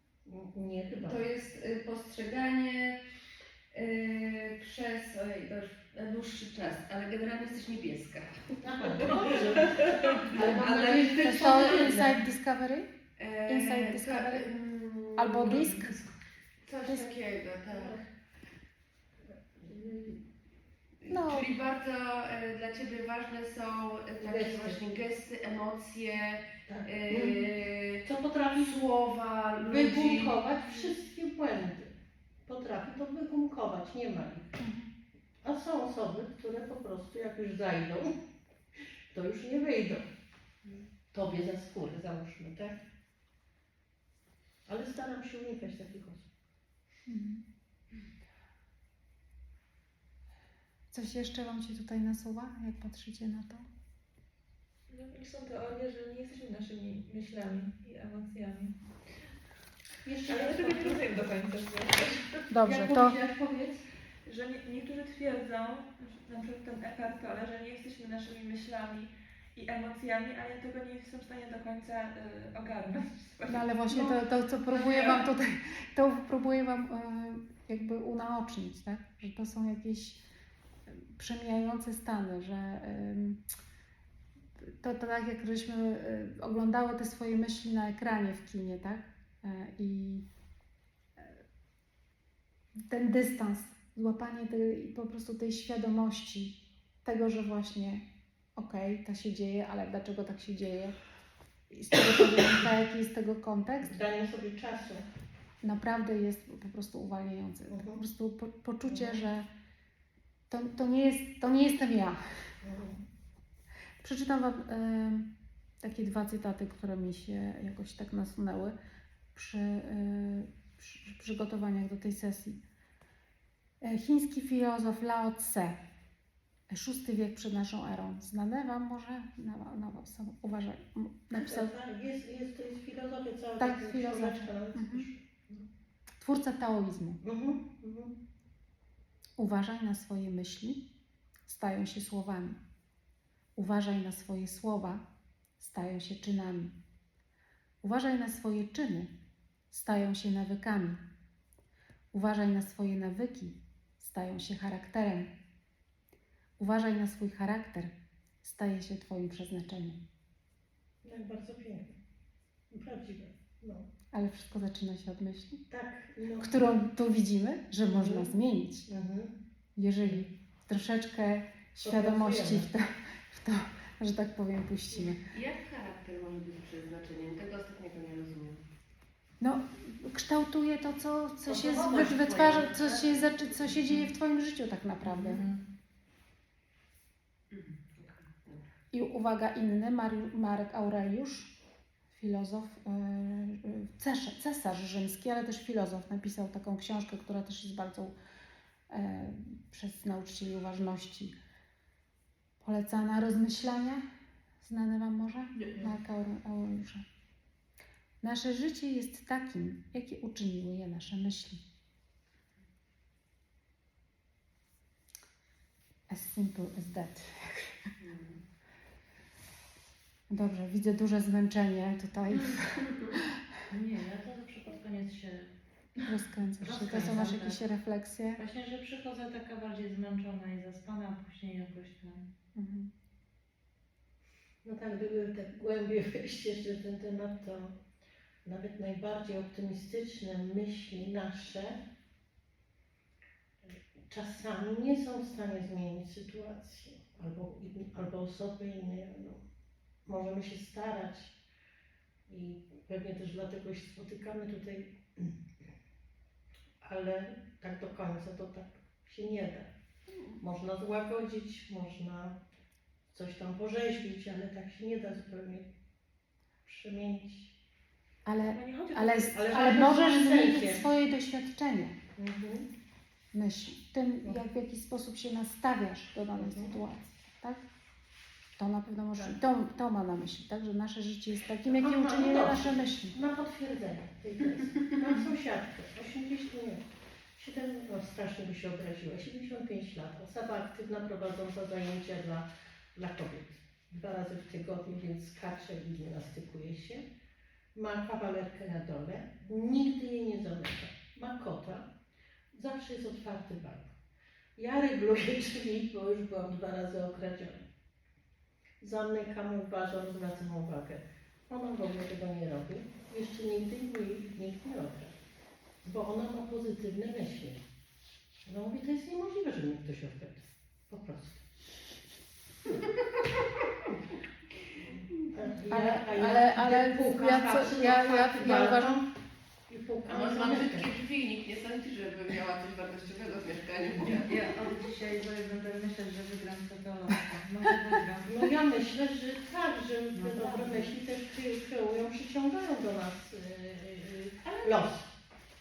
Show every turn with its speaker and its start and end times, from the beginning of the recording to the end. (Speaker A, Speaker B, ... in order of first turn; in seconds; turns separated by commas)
Speaker A: 0.3-1.2, Speaker B: 1.0-3.0, Speaker B: 3.7-9.4, Speaker A: 8.6-12.1, Speaker B: 10.3-12.2, Speaker C: 10.4-12.9, Speaker B: 13.2-16.1, Speaker C: 13.5-14.5, Speaker C: 15.1-16.0, Speaker B: 16.6-18.0, Speaker C: 16.9-17.2, Speaker A: 17.7-18.1, Speaker B: 19.6-20.2, Speaker B: 21.0-30.4, Speaker C: 21.1-21.5, Speaker A: 24.2-25.0, Speaker A: 26.7-27.5, Speaker A: 28.1-28.9, Speaker A: 29.6-31.9, Speaker A: 32.5-34.5, Speaker C: 34.6-34.9, Speaker A: 35.4-38.1, Speaker A: 39.1-40.0, Speaker A: 41.1-42.7, Speaker A: 44.7-46.3, Speaker C: 47.1-47.4, Speaker C: 50.9-53.7, Speaker D: 54.9-58.7, Speaker A: 60.0-61.2, Speaker D: 60.3-62.4, Speaker C: 62.5-63.2, Speaker A: 62.6-63.8, Speaker D: 64.3-75.3, Speaker C: 73.5-80.2, Speaker C: 80.9-83.4, Speaker C: 84.6-90.3, Speaker C: 92.9-98.0, Speaker C: 98.6-101.0, Speaker C: 101.7-104.0, Speaker A: 103.9-105.0, Speaker C: 105.6-109.5, Speaker A: 107.7-108.0, Speaker A: 108.9-109.2, Speaker C: 110.5-112.2, Speaker A: 112.6-113.0, Speaker C: 114.0-115.3, Speaker C: 115.8-118.8, Speaker C: 119.3-122.6, Speaker C: 123.8-125.8, Speaker C: 126.7-131.7, Speaker A: 131.4-135.6, Speaker C: 133.6-135.1, Speaker C: 136.2-137.2, Speaker A: 137.2-138.1, Speaker C: 139.4-140.8, Speaker C: 141.5-142.6, Speaker C: 143.6-145.0, Speaker C: 145.6-146.7, Speaker C: 147.8-149.1, Speaker C: 149.7-151.0, Speaker C: 152.1-155.3, Speaker C: 156.6-160.0, Speaker A: 161.0-161.9, Speaker A: 162.7-163.9, Speaker C: 164.1-165.6, Speaker A: 165.7-166.5, Speaker C: 166.4-168.9, Speaker A: 167.8-168.3, Speaker A: 168.9-169.3, Speaker C: 169.8-175.3, Speaker A: 170.0-170.3, Speaker A: 171.8-172.7, Speaker B: 175.3-178.6, Speaker C: 179.4-185.4, Speaker E: 181.5-184.1, Speaker B: 181.7-182.2, Speaker E: 185.0-185.6, Speaker B: 187.5-188.6, Speaker C: 188.9-191.5, Speaker C: 192.1-198.1, Speaker C: 198.9-201.3, Speaker C: 202.6-204.0, Speaker C: 204.6-207.1, Speaker B: 205.6-205.9, Speaker C: 208.2-211.6, Speaker C: 216.1-217.7, Speaker B: 218.0-218.4, Speaker C: 220.3-223.4, Speaker E: 223.7-225.5, Speaker C: 226.1-228.4, Speaker E: 226.6-227.6, Speaker E: 228.4-232.3, Speaker C: 232.6-232.9, Speaker A: 234.7-237.7, Speaker A: 238.5-241.8, Speaker A: 244.1-249.4, Speaker A: 250.1-251.3, Speaker A: 252.3-255.3, Speaker A: 256.8-259.7, Speaker A: 260.4-262.4, Speaker A: 263.1-265.7, Speaker A: 266.6-267.5, Speaker C: 268.2-272.0, Speaker D: 268.5-269.5, Speaker A: 269.3-270.9, Speaker A: 272.2-272.7, Speaker C: 273.3-277.6, Speaker A: 276.3-276.8, Speaker C: 278.6-283.2, Speaker A: 281.7-286.8, Speaker A: 287.4-297.0, Speaker A: 297.8-301.8, Speaker A: 302.5-303.9, Speaker A: 304.6-307.6, Speaker A: 308.8-315.1, Speaker A: 315.9-317.6, Speaker A: 318.5-321.4, Speaker B: 322.7-323.2, Speaker A: 325.3-329.0, Speaker C: 325.7-329.0, Speaker A: 329.7-330.9, Speaker B: 330.1-334.5, Speaker E: 334.1-338.5, Speaker A: 338.2-345.1, Speaker E: 340.1-340.9